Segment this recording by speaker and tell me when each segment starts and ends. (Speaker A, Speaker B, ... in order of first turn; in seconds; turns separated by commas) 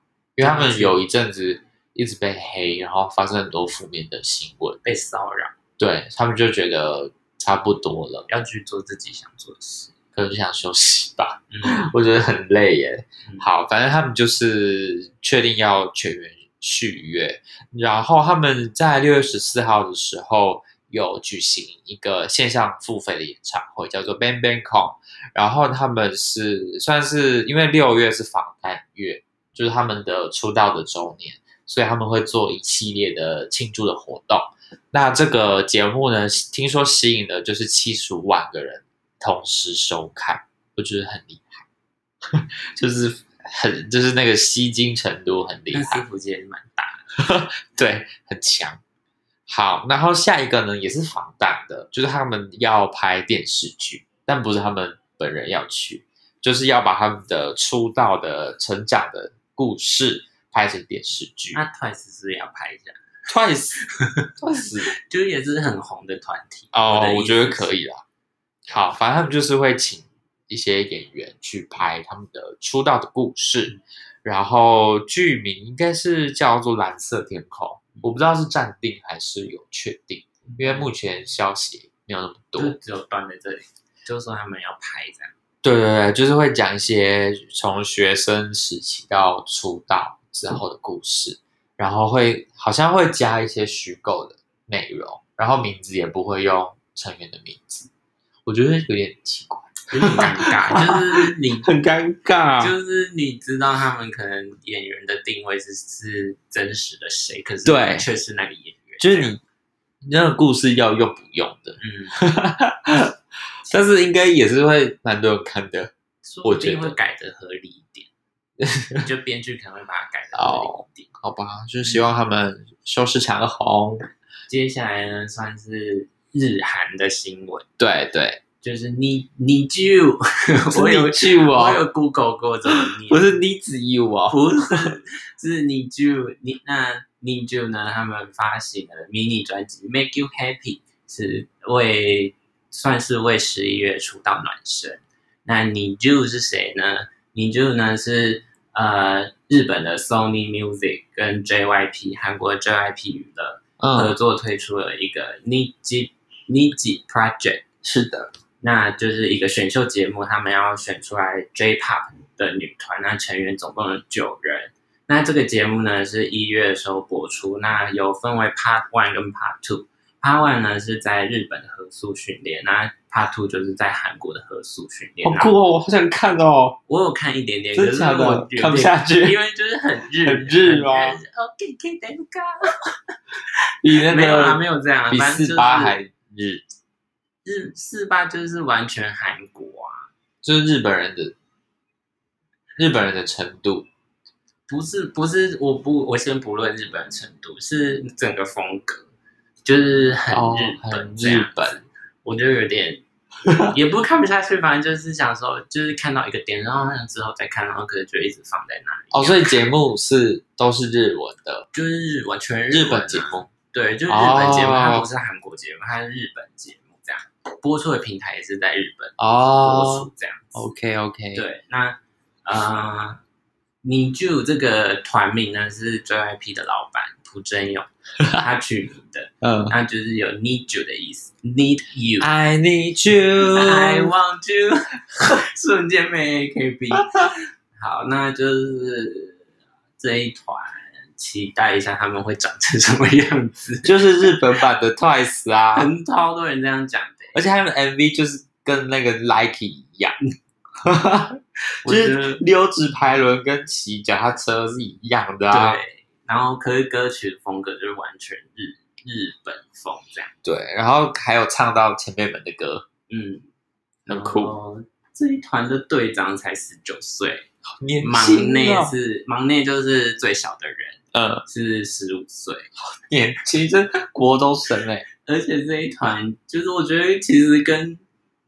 Speaker A: 0.3-4.8, Speaker B: 0.4-1.0, Speaker B: 4.8-5.5, Speaker A: 5.8-8.3, Speaker B: 8.3-9.9, Speaker A: 10.1-41.6, Speaker B: 11.5-11.9, Speaker A: 42.2-46.0, Speaker B: 45.7-47.1, Speaker A: 47.1-48.8, Speaker A: 49.5-61.6, Speaker B: 61.5-63.0, Speaker A: 63.3-63.8, Speaker B: 63.9-64.3, Speaker A: 64.4-64.9, Speaker B: 64.9-67.7, Speaker A: 66.7-68.0, Speaker A: 68.7-82.8, Speaker B: 80.5-80.8, Speaker B: 82.5-85.3, Speaker A: 85.6-97.9, Speaker A: 98.5-102.7, Speaker B: 99.9-101.7, Speaker B: 102.6-109.3, Speaker A: 107.6-108.0, Speaker A: 109.0-109.4, Speaker A: 110.0-113.1, Speaker B: 111.8-112.2, Speaker A: 113.7-115.9, Speaker B: 116.2-118.1, Speaker A: 116.4-117.0, Speaker A: 118.6-119.0, Speaker B: 119.0-121.1, Speaker A: 120.3-124.0, Speaker B: 124.5-127.7, Speaker A: 127.8-128.4, Speaker B: 128.6-133.3, Speaker A: 130.7-131.8, Speaker A: 132.8-134.9, Speaker B: 134.3-157.6, Speaker A: 153.8-154.1, Speaker A: 157.8-158.3, Speaker B: 158.6-175.5, Speaker A: 175.2-176.8, Speaker B: 176.9-183.1, Speaker A: 177.7-179.4, Speaker A: 180.2-181.2, Speaker A: 183.8-186.6, Speaker B: 183.9-186.0, Speaker B: 187.4-190.1, Speaker A: 190.4-191.3, Speaker A: 192.8-193.9, Speaker B: 194.7-199.1, Speaker B: 199.6-203.0, Speaker A: 200.3-201.8, Speaker A: 203.4-203.7, Speaker B: 203.7-209.6, Speaker A: 209.1-211.7, Speaker B: 211.7-220.6, Speaker A: 212.7-213.5, Speaker A: 214.1-215.1, Speaker A: 219.2-221.4, Speaker B: 221.3-223.2, Speaker B: 223.8-232.3, Speaker A: 229.4-229.7, Speaker A: 232.2-234.1, Speaker B: 233.4-239.4, Speaker B: 240.0-244.3, Speaker A: 243.8-245.9, Speaker B: 245.7-247.4, Speaker A: 247.3-250.1, Speaker A: 250.8-255.8, Speaker B: 251.8-252.4, Speaker B: 255.5-260.3, Speaker A: 260.4-262.8, Speaker B: 263.1-263.5, Speaker B: 264.1-267.5, Speaker A: 264.1-264.5, Speaker A: 267.8-268.9, Speaker B: 268.0-272.7, Speaker A: 271.1-271.4, Speaker A: 272.9-275.0, Speaker B: 275.2-278.0